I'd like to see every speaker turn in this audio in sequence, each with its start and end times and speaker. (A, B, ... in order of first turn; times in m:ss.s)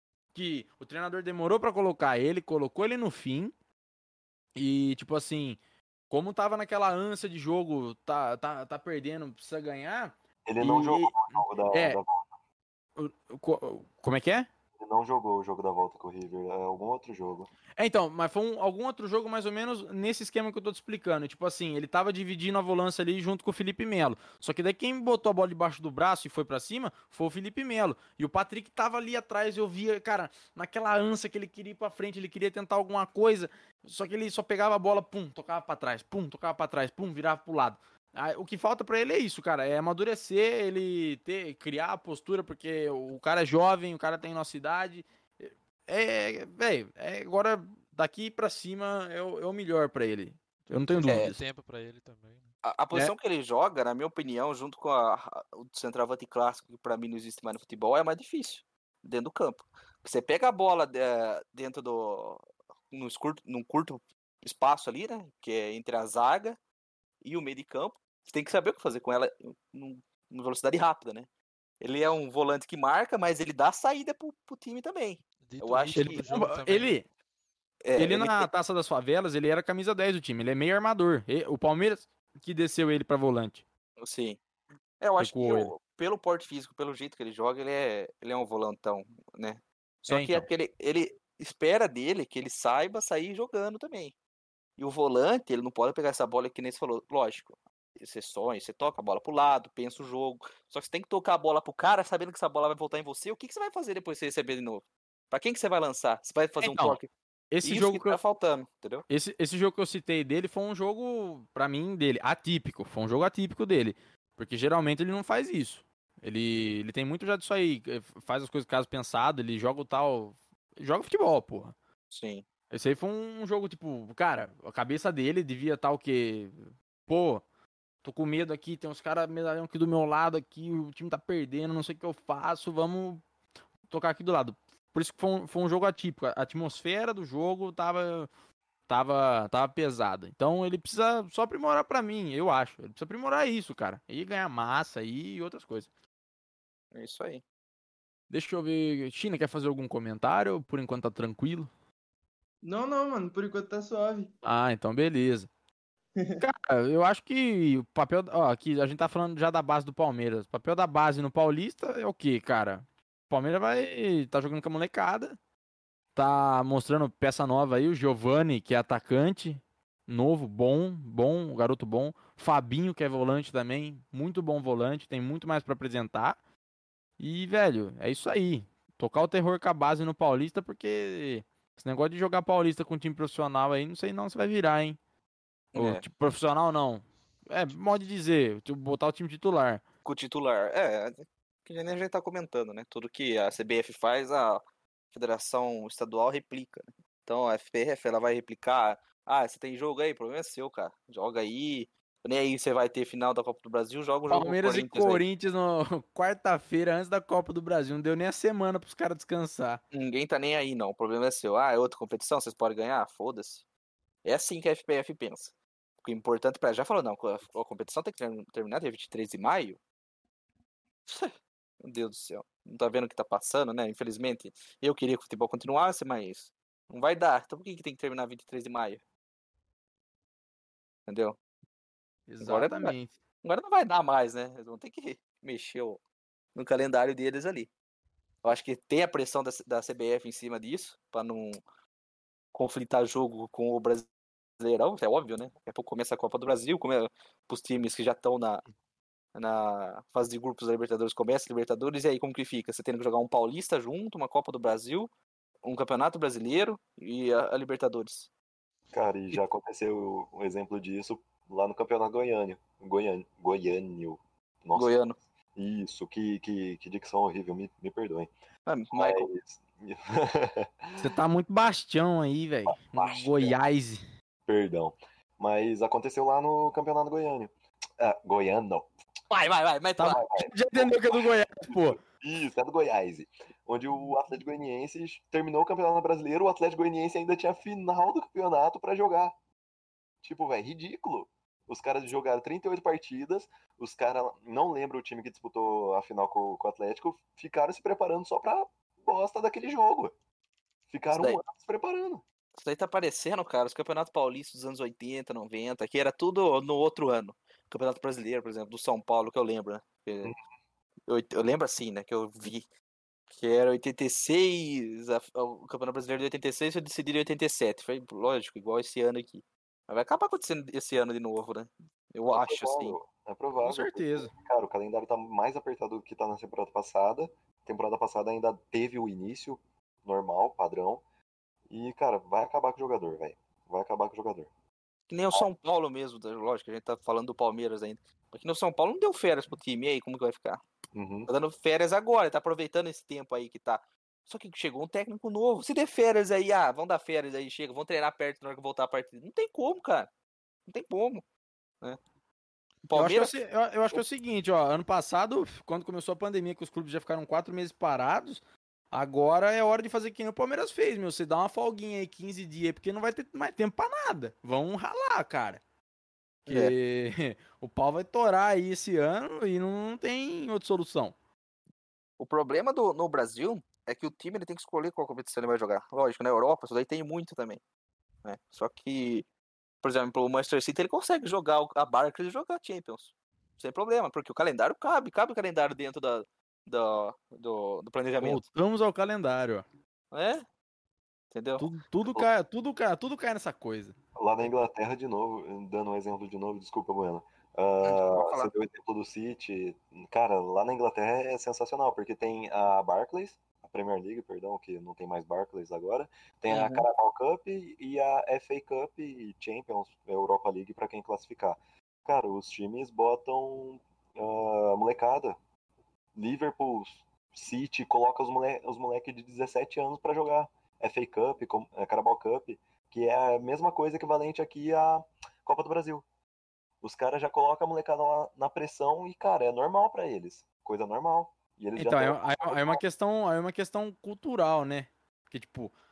0:00.3-0:03.5 A
0:04.5-0:05.6 A
0:06.1-0:12.0 A
0:10.4-0:12.3 B
0:13.0-0:14.5 A
0:14.8-0:17.5 B
0:17.8-0:51.4 A
0:50.9-0:52.5 C
0:51.1-0:51.3 D
0:52.6-1:06.6 D
1:07.2-1:11.3 D
1:11.8-1:16.2 D
1:15.5-1:17.0 C
1:15.9-1:17.0 A
1:17.8-1:18.5 D
1:18.0-1:23.6 A
1:24.0-1:24.4 D
1:25.0-1:34.1 D
1:25.2-1:25.7 A
1:30.1-1:30.5 A
1:34.8-1:47.1 D
1:46.6-1:47.0 A
1:47.5-1:48.2 A
1:47.6-1:49.0 D
1:49.1-2:01.7 A
2:02.1-2:02.4 D
2:02.7-2:07.4 A
2:08.0-2:13.2 A
2:13.9-2:18.3 A
2:18.9-2:25.9 A
2:26.9-2:27.4 D
2:28.3-2:31.7 A
2:32.6-2:34.3 E
2:34.4-2:35.5 A
2:36.2-2:36.4 E
2:36.4-2:45.4 A
2:46.2-2:56.4 A
2:57.2-3:05.0 A
3:05.7-3:06.0 D
3:05.7-3:09.8 A
3:10.0-3:14.6 D
3:15.1-3:25.2 D
3:24.3-3:29.8 A
3:29.9-3:33.6 D
3:34.2-3:39.8 D
3:41.1-3:49.0 D
3:51.1-3:51.4 D
3:52.3-3:53.2 A
3:52.4-3:56.0 D
3:56.5-3:57.7 D
3:58.4-4:01.6 D
4:02.5-4:04.1 D
4:04.6-4:08.6 D
4:09.3-4:15.1 D
4:15.6-4:18.3 D
4:18.9-4:25.0 B
4:24.7-4:25.1 D
4:25.5-4:28.3 B
4:28.6-4:29.3 D
4:28.9-4:31.1 B
4:31.0-4:34.0 A
4:32.7-4:33.6 B
4:34.5-4:38.9 B
4:39.3-4:40.2 D
4:40.0-4:42.0 A
4:40.1-4:49.3 B
4:50.2-5:00.1 B
5:00.9-5:02.2 B
5:01.1-5:01.4 D
5:02.6-5:10.3 D
5:11.1-5:12.7 D
5:13.3-5:23.0 D
5:22.3-5:31.0 B
5:23.6-5:24.3 A
5:31.7-5:34.5 B
5:35.1-5:40.6 D
5:40.9-5:41.3 B
5:41.3-5:50.1 D
5:50.7-5:51.2 D
5:52.8-5:53.3 D
5:52.9-6:05.6 A
6:06.5-6:11.1 A
6:06.5-6:06.7 D
6:12.2-6:17.6 D
6:18.2-6:19.3 D
6:19.8-6:28.4 D
6:28.2-6:29.6 A
6:30.1-6:30.4 D
6:31.3-6:31.7 D
6:31.6-6:34.0 A
6:34.2-6:55.4 B
6:37.8-6:38.5 D
6:46.5-6:46.9 D
6:56.1-7:06.0 B
7:06.8-7:12.8 B
7:11.8-7:15.7 A